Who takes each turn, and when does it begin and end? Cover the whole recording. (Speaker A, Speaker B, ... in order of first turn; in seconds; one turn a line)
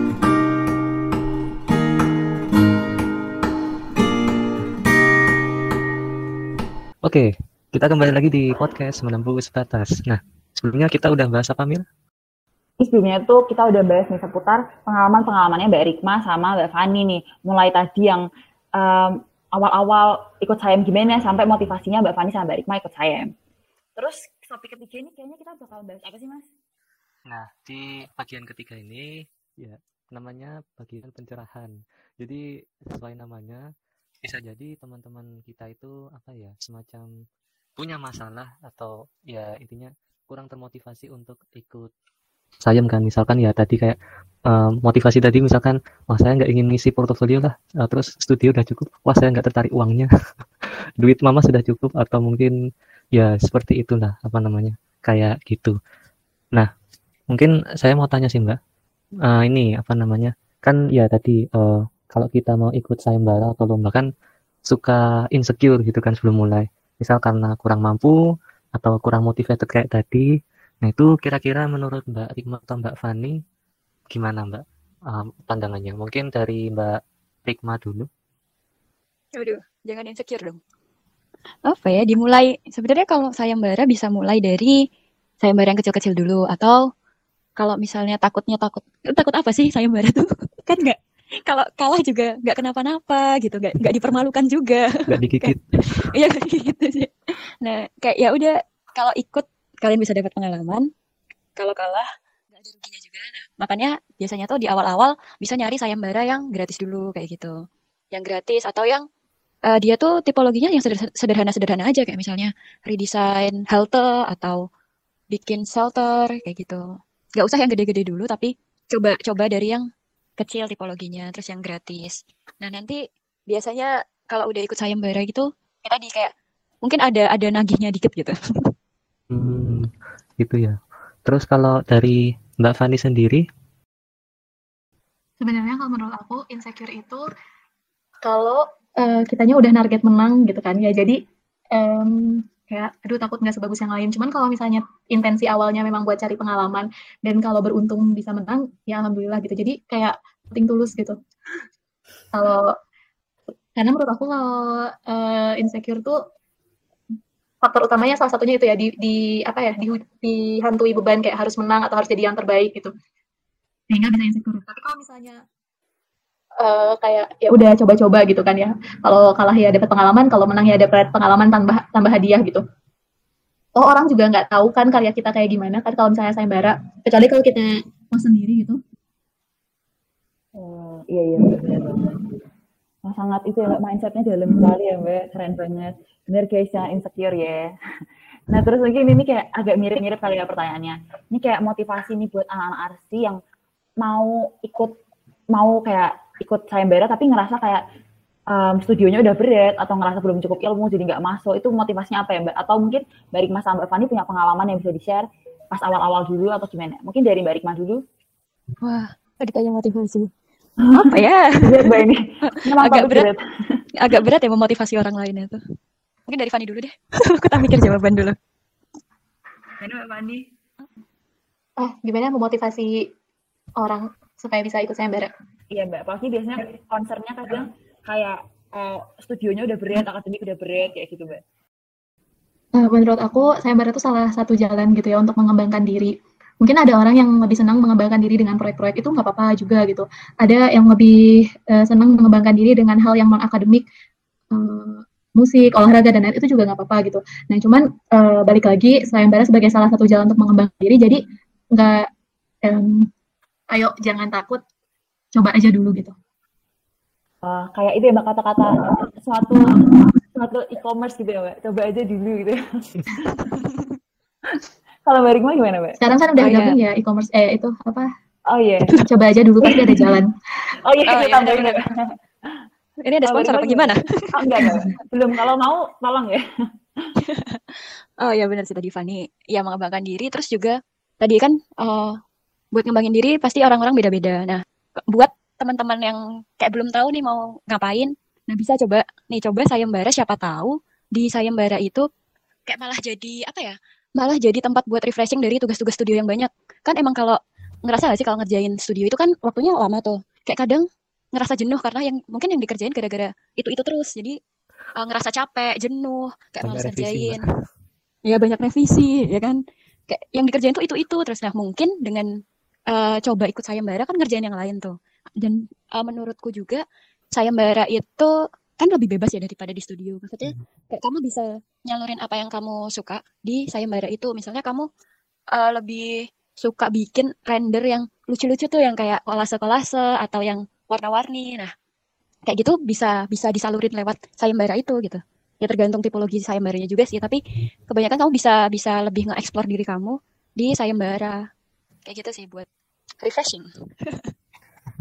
Speaker A: 7.0-11.8
Speaker B: 12.8-18.2
Speaker B: 18.8-23.3
Speaker B: 23.9-26.4
Speaker A: 27.3-33.6
Speaker A: 34.2-37.1
Speaker A: 37.8-41.9
Speaker A: 42.6-44.0
Speaker A: 44.5-50.1
Speaker A: 51.0-52.5
Speaker A: 53.1-55.7
Speaker A: 57.3-58.6
Speaker A: 59.2-64.0
Speaker A: 64.7-68.2
Speaker A: 68.8-70.3
Speaker A: 70.8-73.4
Speaker A: 74.1-78.1
Speaker C: 79.3-80.6
Speaker C: 81.6-84.8
Speaker C: 85.4-86.8
Speaker C: 87.6-95.5
Speaker A: 95.1-95.7
Speaker C: 96.1-97.1
Speaker C: 97.6-100.8
Speaker C: 101.5-107.5
Speaker C: 108.1-109.0
Speaker C: 109.7-114.6
Speaker C: 115.3-116.8
Speaker C: 117.4-119.8
Speaker C: 120.4-126.3
Speaker C: 126.8-128.3
Speaker A: 129.3-129.9
Speaker A: 130.4-133.4
Speaker D: 135.4-137.2
Speaker D: 138.2-141.2
Speaker D: 141.7-151.1
Speaker D: 152.3-152.7
Speaker D: 153.8-156.1
Speaker D: 157.6-162.9
Speaker D: 163.9-165.4
Speaker D: 166.6-172.6
Speaker D: 173.7-178.8
Speaker B: 180.6-182.1
Speaker B: 183.1-187.7
Speaker B: 188.5-193.4
Speaker B: 194.0-194.9
Speaker B: 195.5-197.8
Speaker B: 198.5-208.0
Speaker C: 208.8-210.3
Speaker C: 210.9-212.0
Speaker B: 210.9-213.8
Speaker C: 212.5-213.3
Speaker C: 213.9-215.6
Speaker C: 216.3-218.3
Speaker B: 219.8-220.5
Speaker D: 221.8-223.0
Speaker D: 223.8-225.3
Speaker B: 225.7-231.4
Speaker D: 232.8-243.8
Speaker D: 244.5-251.2
Speaker D: 251.7-252.0
Speaker D: 252.6-253.0
Speaker D: 253.7-254.6
Speaker D: 255.3-256.1
Speaker B: 257.4-259.7
Speaker B: 260.3-263.2
Speaker C: 263.4-263.9
Speaker B: 265.1-266.0
Speaker D: 266.0-268.1
Speaker C: 266.4-266.8
Speaker B: 268.5-268.9
Speaker D: 269.1-270.3
Speaker B: 270.8-272.1
Speaker C: 271.1-271.8
Speaker C: 273.0-274.8
Speaker B: 273.2-276.4
Speaker C: 277.2-282.1
Speaker C: 282.7-292.0
Speaker C: 292.7-304.4
Speaker C: 305.0-307.4
Speaker A: 306.6-307.4
Speaker C: 308.2-309.6
Speaker C: 310.1-312.3
Speaker C: 312.9-324.9
Speaker C: 325.5-331.7
Speaker C: 332.5-341.4
Speaker C: 342.0-342.7
Speaker C: 343.2-344.3